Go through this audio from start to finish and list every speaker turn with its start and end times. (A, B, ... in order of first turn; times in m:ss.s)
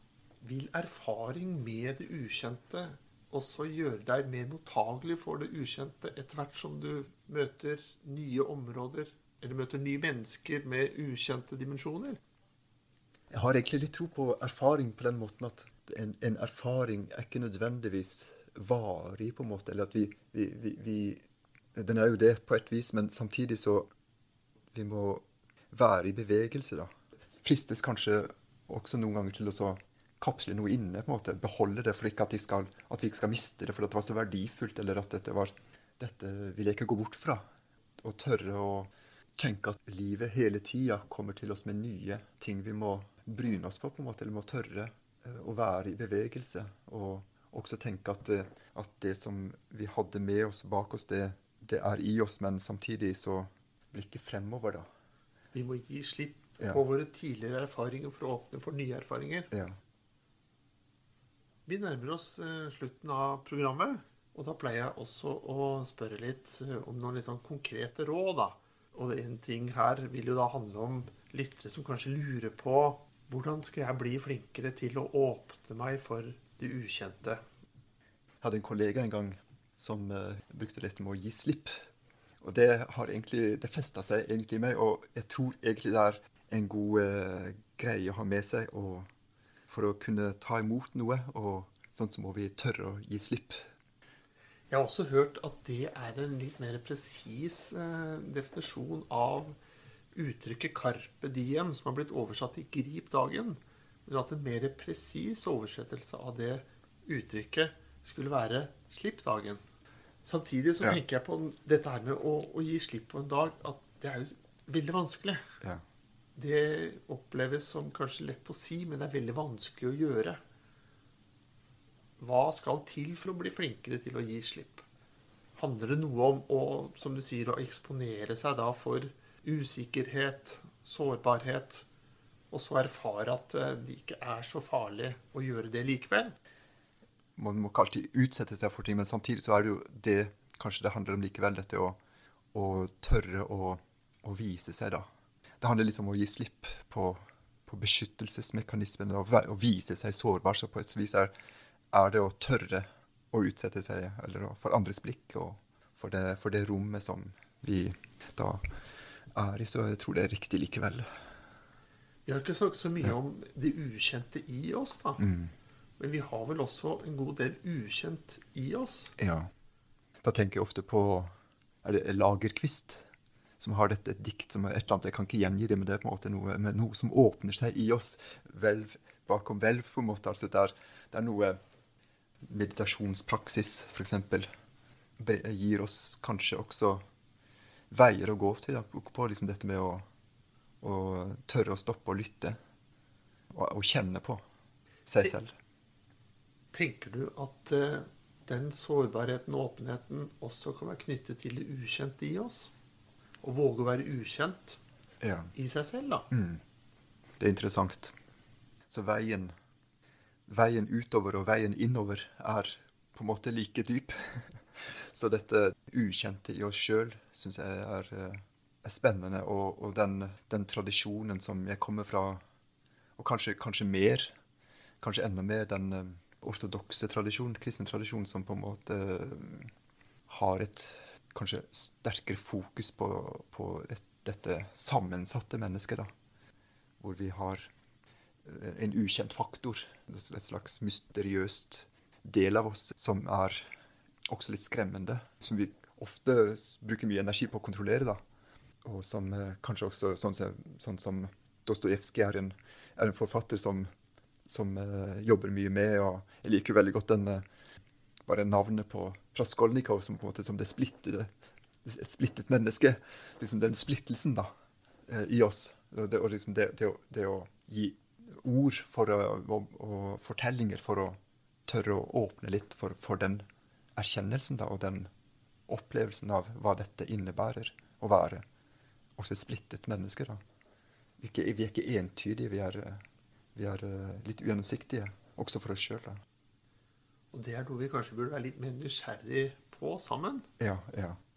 0:00.4-0:12.2 A
0:13.3-0:21.2 B
0:21.8-0:23.9 B
0:24.7-0:26.9 B
0:27.4-0:37.4 B
0:38.0-0:54.9 B
0:55.5-0:59.5 A
0:59.5-0:59.8 B
1:01.7-1:17.4 A
1:18.4-1:21.8 B
1:22.4-1:29.1 B
1:29.7-1:33.6 B
1:34.7-1:39.6 A
1:40.1-1:49.6 A
1:50.2-1:55.4 A
1:56.4-2:00.4 A
2:02.2-2:04.8 A
2:05.6-2:11.9 A
2:12.5-2:16.4 A
2:17.4-2:22.0 B
2:22.5-2:25.1 B
2:25.6-2:31.3 B
2:31.9-2:38.6 B
2:39.3-2:41.1 B
2:42.3-2:45.2 A
2:45.2-2:45.5 B
2:46.0-2:49.2 A
2:49.2-2:49.5 B
2:50.2-2:51.3 B
2:51.8-2:53.0 B
2:53.6-3:01.6 B
3:02.4-3:04.5 B
3:05.2-3:07.0 B
3:07.9-3:10.0 B
3:10.8-3:12.6 B
3:13.5-3:14.4 B
3:15.1-3:15.5 B
3:16.7-3:22.7 A
3:23.4-3:24.8 A
3:25.2-3:25.5 B
3:25.6-3:26.3 A
3:26.3-3:26.6 B
3:27.4-3:28.2 B
3:28.9-3:29.5 B
3:30.5-3:42.4 B
3:43.2-3:44.3 B
3:45.0-3:49.7 B
3:50.3-3:56.1 B
3:57.0-3:57.7 B
3:58.4-4:03.7 B
4:04.3-4:08.2 B
4:08.8-4:13.9 B
4:14.5-4:17.4 B
4:18.3-4:21.3 B
4:21.8-4:24.5 B
4:25.1-4:33.4 B
4:34.0-4:35.1 B
4:35.7-4:38.4 B
4:39.2-4:40.4 B
4:41.2-4:43.0 B
4:43.6-4:46.2 B
4:47.3-4:50.5 A
4:50.6-4:51.2 B